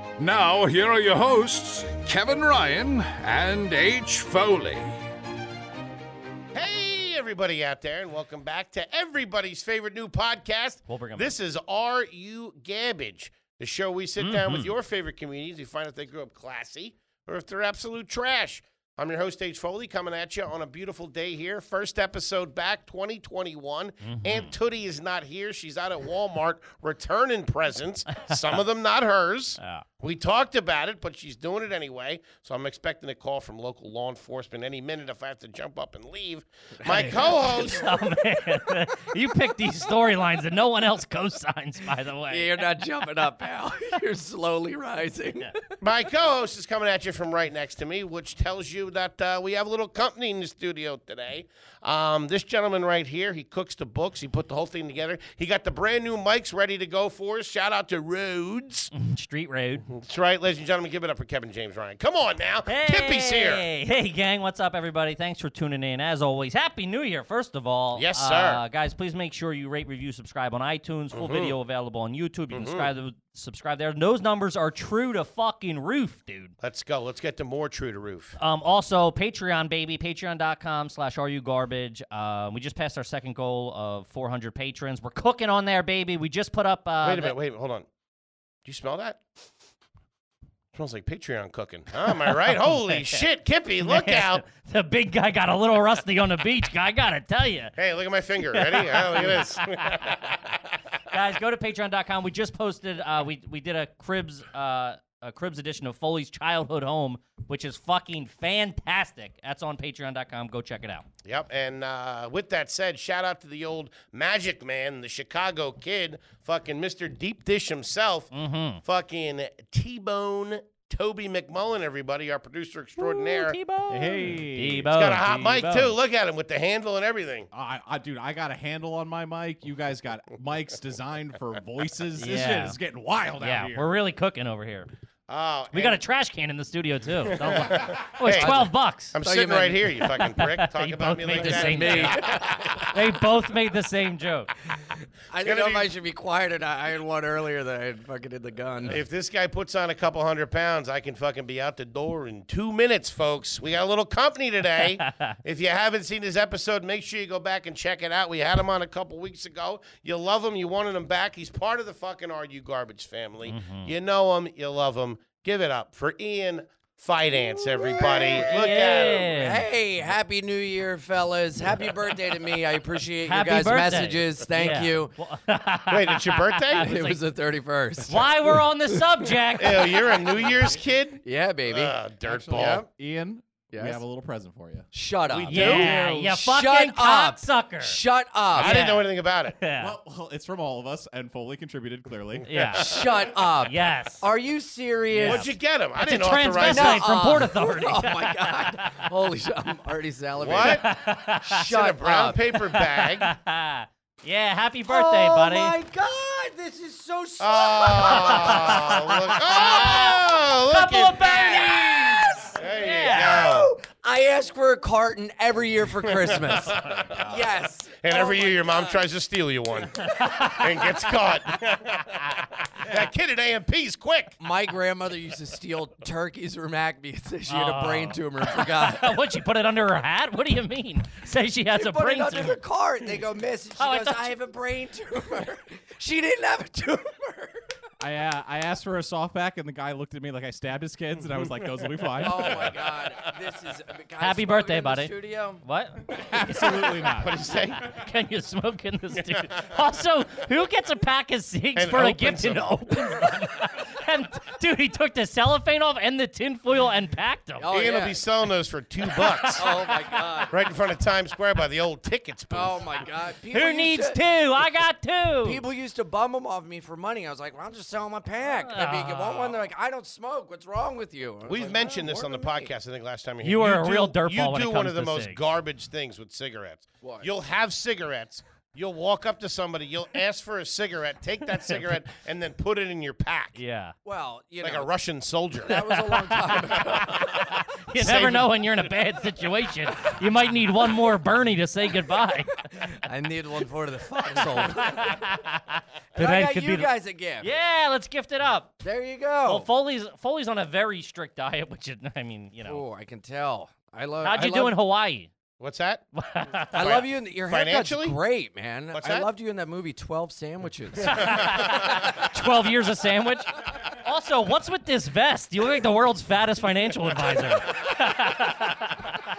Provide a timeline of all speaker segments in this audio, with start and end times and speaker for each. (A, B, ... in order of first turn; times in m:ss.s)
0:00.2-0:05.0 A
0:06.5-0:37.9 B
0:10.9-0:11.3 C
0:14.2-0:14.7 C
0:24.0-0:24.5 C
0:36.8-0:37.9 D
0:36.9-0:42.5 C
0:42.3-0:45.7 D
0:45.8-0:58.9 B
0:58.9-0:59.8 C
0:59.9-1:03.6 B
1:02.7-1:16.5 C
1:08.0-1:08.6 B
1:11.1-1:11.5 B
1:12.5-1:12.9 B
1:16.6-1:18.4 B
1:18.4-1:27.4 C
1:27.0-1:27.9 B
1:28.6-1:29.2 B
1:30.7-1:34.4 B
1:33.8-1:37.8 C
1:37.8-1:40.6 B
1:38.5-1:40.2 C
1:41.1-1:51.1 C
1:51.2-1:58.3 B
1:58.3-1:58.8 C
1:58.8-2:03.6 B
2:03.0-2:06.0 C
2:03.9-2:04.9 E
2:04.9-2:07.5 B
2:07.5-2:13.9 E
2:12.2-2:12.8 C
2:13.4-2:14.9 C
2:15.3-2:16.0 B
2:15.7-2:19.2 C
2:17.3-2:22.9 B
2:18.3-2:18.7 D
2:19.2-2:20.0 D
2:20.2-2:22.2 C
2:21.3-2:23.0 D
2:22.9-2:24.5 C
2:24.7-2:29.0 D
2:25.4-2:25.9 B
2:28.9-2:49.3 B
2:35.0-2:35.3 C
2:43.5-2:43.9 C
2:47.8-2:55.1 D
2:48.4-2:49.6 C
2:53.2-2:57.2 C
2:55.9-2:57.0 B
2:56.8-2:59.3 D
2:58.1-3:00.2 C
2:59.6-3:02.8 B
3:01.2-3:02.9 D
3:02.5-3:04.9 E
3:03.7-3:04.0 D
3:04.9-3:08.8 D
3:05.3-3:06.0 B
3:05.5-3:08.0 C
3:08.5-3:10.0 C
3:08.6-3:09.6 B
3:09.8-3:12.6 E
3:12.5-3:12.9 C
3:12.8-3:13.2 B
3:12.8-3:15.5 D
3:13.6-3:14.2 C
3:15.1-3:19.1 C
3:15.2-3:17.1 B
3:16.6-3:22.4 D
3:20.4-3:20.8 B
3:20.5-3:21.7 C
3:21.6-3:23.3 B
3:22.8-3:25.8 C
3:24.9-3:30.2 D
3:27.4-3:31.7 B
3:28.1-3:33.4 C
3:31.2-3:39.0 D
3:32.6-3:33.7 B
3:36.1-3:37.4 B
3:36.6-3:37.0 C
3:38.0-3:44.4 B
3:40.0-3:40.9 C
3:44.4-3:49.2 D
3:47.5-3:52.6 C
3:51.7-3:57.7 D
3:53.8-3:54.4 C
3:58.0-4:02.7 E
4:02.2-4:05.6 D
4:02.4-4:03.3 B
4:04.2-4:07.0 C
4:06.2-4:07.4 E
4:07.2-4:07.9 B
4:07.8-4:17.7 C
4:11.8-4:13.3 B
4:17.6-4:18.2 D
4:17.7-4:19.9 B
4:19.1-4:20.2 C
4:19.6-4:20.6 D
4:20.5-4:23.0 B
4:22.5-4:24.7 D
4:23.5-4:25.6 C
4:25.4-4:32.7 D
4:28.4-4:29.6 C
4:31.4-4:43.6 B
4:33.4-4:35.4 C
4:37.0-4:37.3 D
4:43.6-4:44.0 C
4:44.0-4:44.9 D
4:44.6-4:45.8 B
4:45.6-4:48.4 D
4:45.7-4:53.0 C
4:48.1-4:48.9 B
4:52.7-4:55.2 D
4:54.4-4:58.7 C
4:56.2-4:57.5 D
4:58.8-4:59.7 D
4:59.4-5:02.8 C
5:02.6-5:04.8 D
5:04.2-5:05.3 C
5:05.6-5:06.0 B
5:06.2-5:07.1 C
5:06.6-5:08.2 B
5:06.7-5:11.5 D
5:08.9-5:09.3 B
5:11.0-5:19.1 C
5:11.1-5:12.2 B